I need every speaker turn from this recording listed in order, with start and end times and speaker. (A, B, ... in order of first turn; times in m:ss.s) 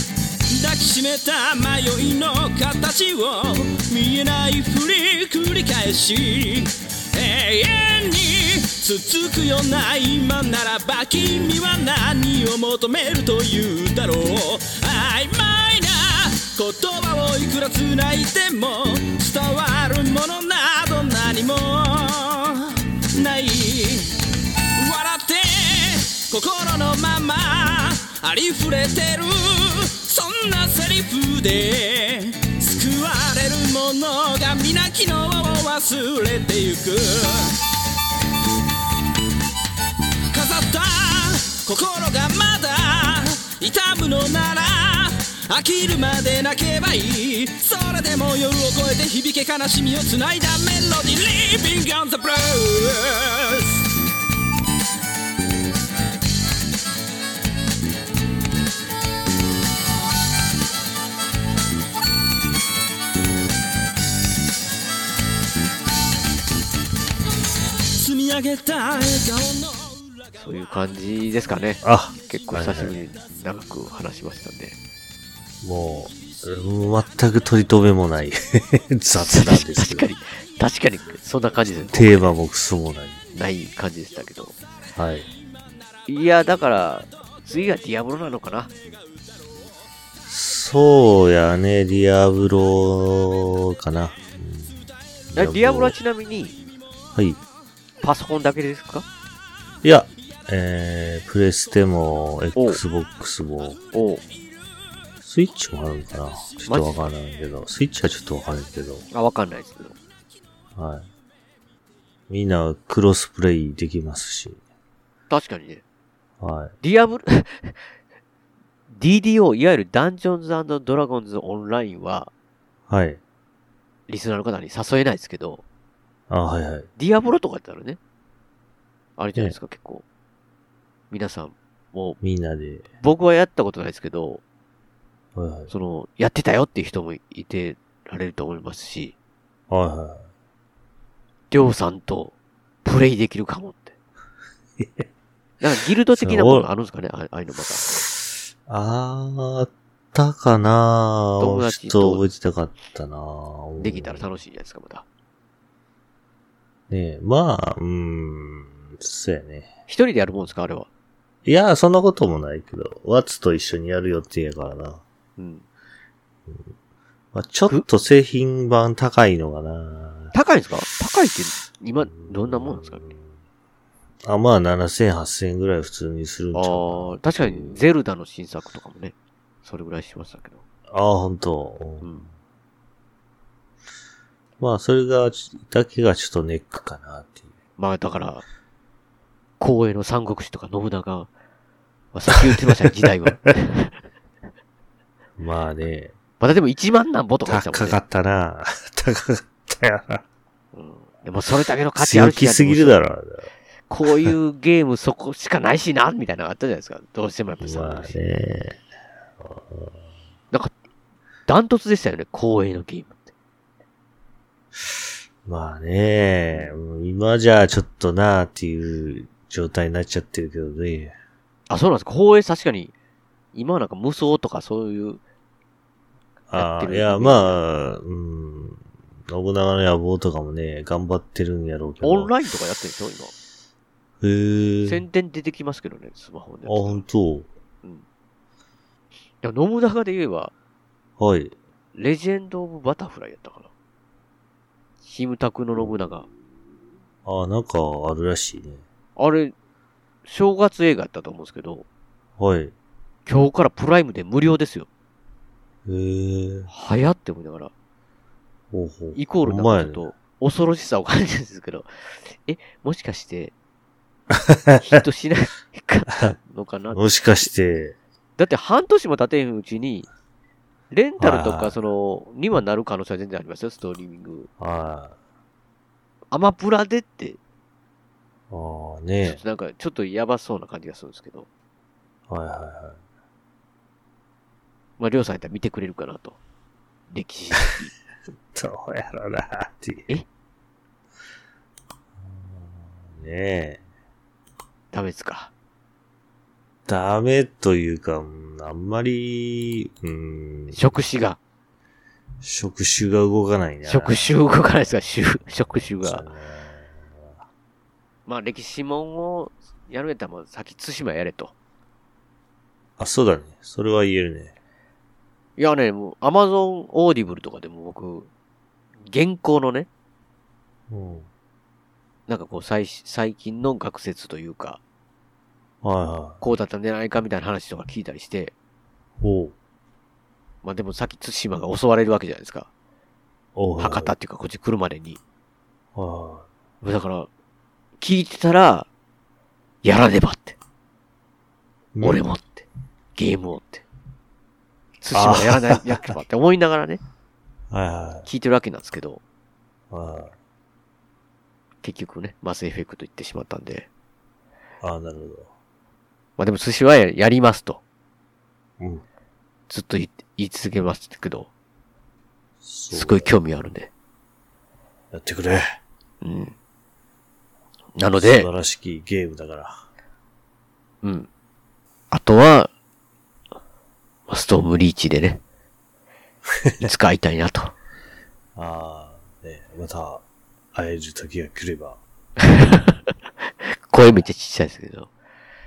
0:00.5-0:24.2 A
0:24.8-0:37.6 A
0:40.3-0:53.8 A
1:07.9-1:10.0 A
1:10.4-1:14.8 B
1:11.8-1:12.9 C
1:15.6-1:20.1 C
1:19.2-1:22.2 B
1:21.8-1:23.2 C
1:23.3-1:24.6 B
1:25.0-1:25.2 C
1:26.0-1:28.7 B
1:30.3-1:36.0 C
1:35.4-1:36.6 B
1:38.0-1:39.0 B
1:39.8-1:43.8 C
1:43.9-1:44.2 B
1:45.2-1:49.0 C
1:46.7-1:47.0 B
1:49.1-1:50.0 B
1:50.8-1:51.1 C
1:52.3-1:54.6 C
1:55.3-1:55.8 B
1:56.4-1:56.7 C
1:56.8-1:57.8 B
1:58.9-2:02.3 B
2:02.9-2:03.2 C
2:04.1-2:05.6 B
2:06.3-2:06.9 C
2:07.0-2:08.0 B
2:09.2-2:10.0 B
2:11.1-2:12.2 B
2:12.2-2:12.8 C
2:13.0-2:14.4 B
2:15.4-2:15.7 C
2:15.7-2:19.1 B
2:19.7-2:20.2 C
2:21.5-2:22.3 B
2:22.8-2:23.9 B
2:24.8-2:25.1 C
2:25.6-2:27.9 B
2:26.2-2:26.7 C
2:28.7-2:34.3 C
2:31.4-2:32.2 B
2:33.8-2:35.0 B
2:36.9-2:39.7 C
2:39.9-2:40.9 B
2:41.4-2:45.0 C
2:45.4-2:45.6 B
2:47.3-2:50.3 C
2:50.3-2:53.0 B
2:52.1-2:53.1 C
2:54.2-2:57.8 C
2:56.5-2:59.1 B
2:59.6-3:00.6 B
3:00.9-3:02.3 C
3:04.6-3:07.5 C
3:07.8-3:08.4 B
3:09.6-3:11.3 B
3:12.1-3:13.9 B
3:15.4-3:16.1 C
3:16.4-3:18.0 B
3:17.4-3:20.2 C
3:20.7-3:23.0 B
3:21.9-3:23.5 C
3:23.9-3:28.1 B
3:24.1-3:24.3 C
3:27.6-3:28.8 C
3:29.4-3:29.9 C
3:31.5-3:33.3 B
3:35.4-3:41.1 C
3:41.7-3:42.9 B
3:43.5-3:45.2 B
3:46.5-3:52.3 C
3:46.5-3:47.6 B
3:52.0-3:53.3 B
3:54.2-3:55.0 C
3:54.8-3:57.0 B
3:56.6-3:57.5 C
3:59.4-4:00.5 B
4:01.2-4:01.5 C
4:01.9-4:03.7 B
4:05.0-4:06.3 B
4:07.2-4:08.8 C
4:09.2-4:09.5 B
4:10.2-4:11.8 B
4:12.4-4:12.7 C
4:13.2-4:14.9 B
4:15.8-4:16.7 C
4:16.7-4:17.7 B
4:18.7-4:20.0 C
4:19.1-4:23.5 B
4:24.3-4:24.9 C
4:24.8-4:27.5 B
4:26.9-4:28.0 C
4:28.4-4:30.1 B
4:30.9-4:34.5 B
4:31.2-4:31.7 C
4:34.6-4:35.1 C
4:36.3-4:37.4 B
4:38.5-4:39.4 C
4:39.2-4:41.5 B
4:42.3-4:43.0 C
4:45.0-4:46.4 B
4:47.1-4:47.9 B
4:48.5-4:50.1 C
4:52.2-4:53.8 C
4:54.9-4:55.5 B
4:56.8-5:00.9 C
5:00.7-5:01.4 B
5:02.4-5:04.3 C
5:03.8-5:06.2 B
5:05.7-5:07.4 C
5:08.2-5:11.5 B
5:13.0-5:14.5 C
5:15.6-5:18.3 B
5:19.1-5:19.9 B
5:20.9-5:21.3 C
5:22.3-5:24.8 B
5:25.8-5:26.4 C
5:26.4-5:28.5 B
5:29.2-5:29.5 C
5:30.6-5:32.7 B
5:33.5-5:34.1 C
5:33.8-5:35.2 B
5:35.9-5:36.5 C
5:36.8-5:37.3 B
5:38.0-5:38.9 B
5:39.8-5:40.6 B
5:41.9-5:42.2 C
5:42.0-5:43.8 B
5:45.0-5:47.0 B
5:45.1-5:46.2 C
5:47.7-5:48.3 C
5:48.2-5:49.2 B
5:49.9-5:50.3 C
5:51.8-5:53.9 B
5:54.8-5:55.5 C
5:56.4-5:57.8 B
5:58.8-5:59.0 C
5:59.7-6:01.5 B
6:02.6-6:03.3 C
6:02.9-6:03.9 B
6:05.1-6:05.8 C
6:06.2-6:06.5 B
6:08.0-6:08.5 B
6:08.2-6:09.8 C
6:11.0-6:11.3 B
6:12.1-6:12.7 B
6:14.3-6:15.4 B
6:16.8-6:17.7 B
6:18.6-6:20.2 C
6:20.7-6:22.0 C
6:22.4-6:23.0 B
6:23.9-6:25.1 B